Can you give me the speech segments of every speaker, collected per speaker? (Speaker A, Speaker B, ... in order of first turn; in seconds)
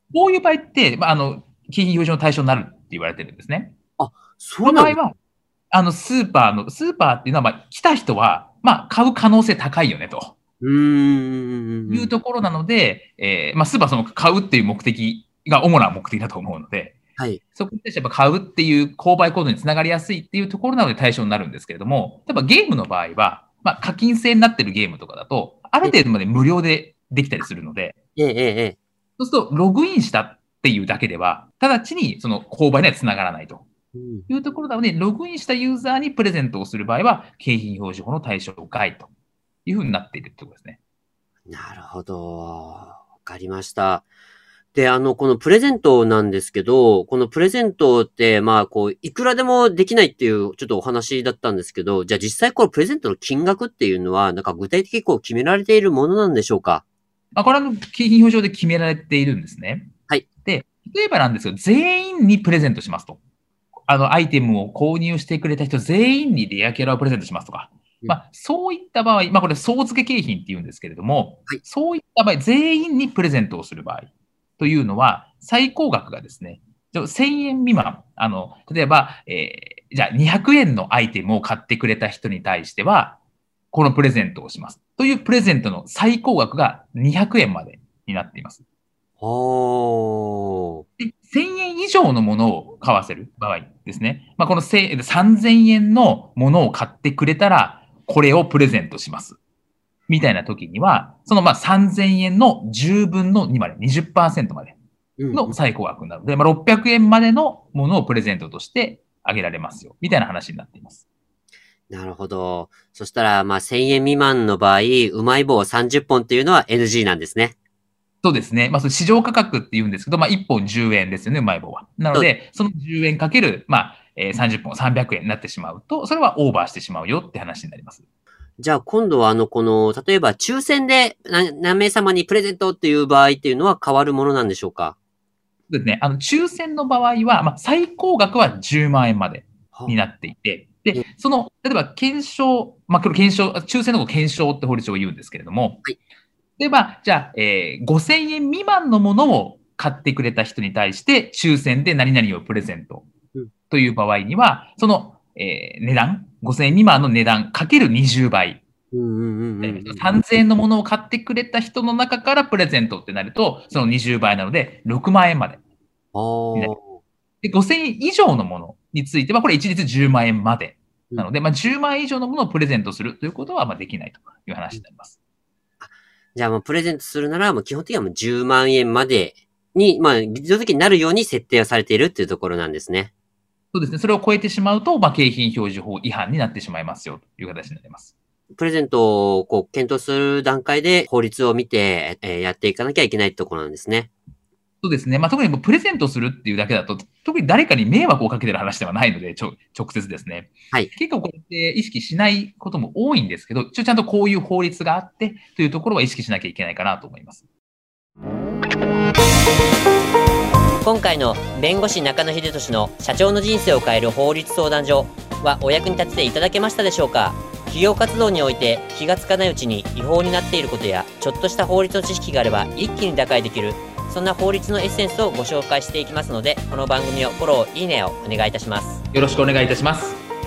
Speaker A: 0.1-3.7, 4.6-5.1, 5.7-10.4, 11.9-16.9, 17.6-28.0, 29.2-33.6, 34.3-39.1, 39.7-40.8, 57.4-59.9, 60.4-63.2, 63.9-83.2, 83.7-88.6, 91.0-99.4, 100.1-104.8, 105.3-111.0, 118.2-128.0, 135.7-145.8, 146.6-153.1, 153.7-158.6, 159.6-165.6, 167.4-175.2, 183.7-188.1, 194.8-207.4, 229.1-230.2
Speaker B: 4.0-5.0, 10.6-12.1, 28.2-28.8, 34.0-34.3, 41.5-44.1, 44.7-56.8, 89.2-90.8, 105.2-105.5, 111.9-117.5, 128.6-135.0, 158.9-160.1, 166.2-167.0, 175.8-183.1, 188.6-194.1, 210.8-229.0